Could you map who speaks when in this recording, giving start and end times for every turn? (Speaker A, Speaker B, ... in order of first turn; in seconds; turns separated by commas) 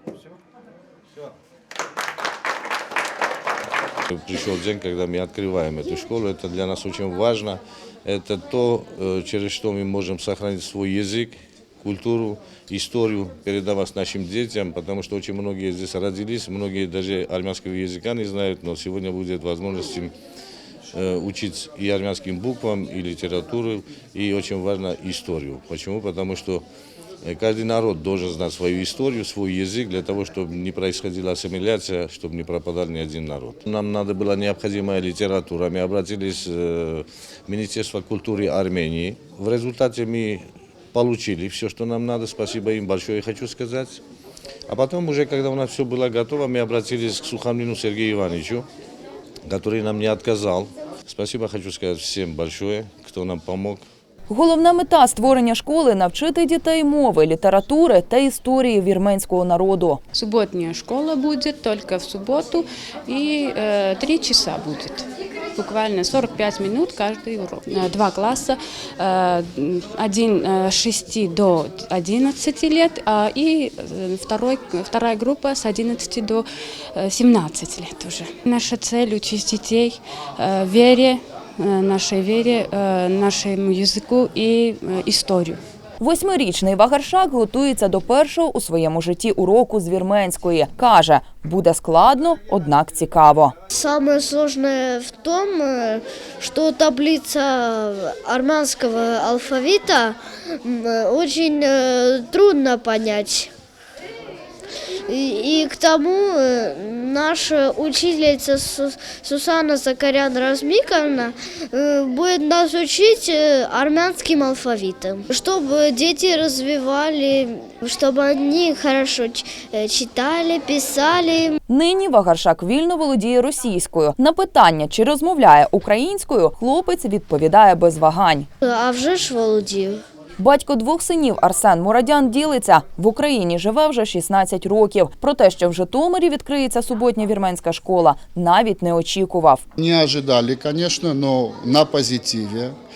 Speaker A: 4.1-20.1, Speaker A: 20.9-26.6, Speaker A: 27.2-44.0, Speaker A: 44.7-48.7, Speaker A: 49.5-53.8, Speaker B: 54.3-60.0, Speaker C: 60.1-85.6, Speaker B: 86.0-93.5, Speaker D: 93.7-103.5, Speaker D: 105.1-121.5, Speaker B: 121.7-128.5, Speaker D: 128.6-130.0, Speaker B: 130.4-139.6, Speaker E: 139.8-142.7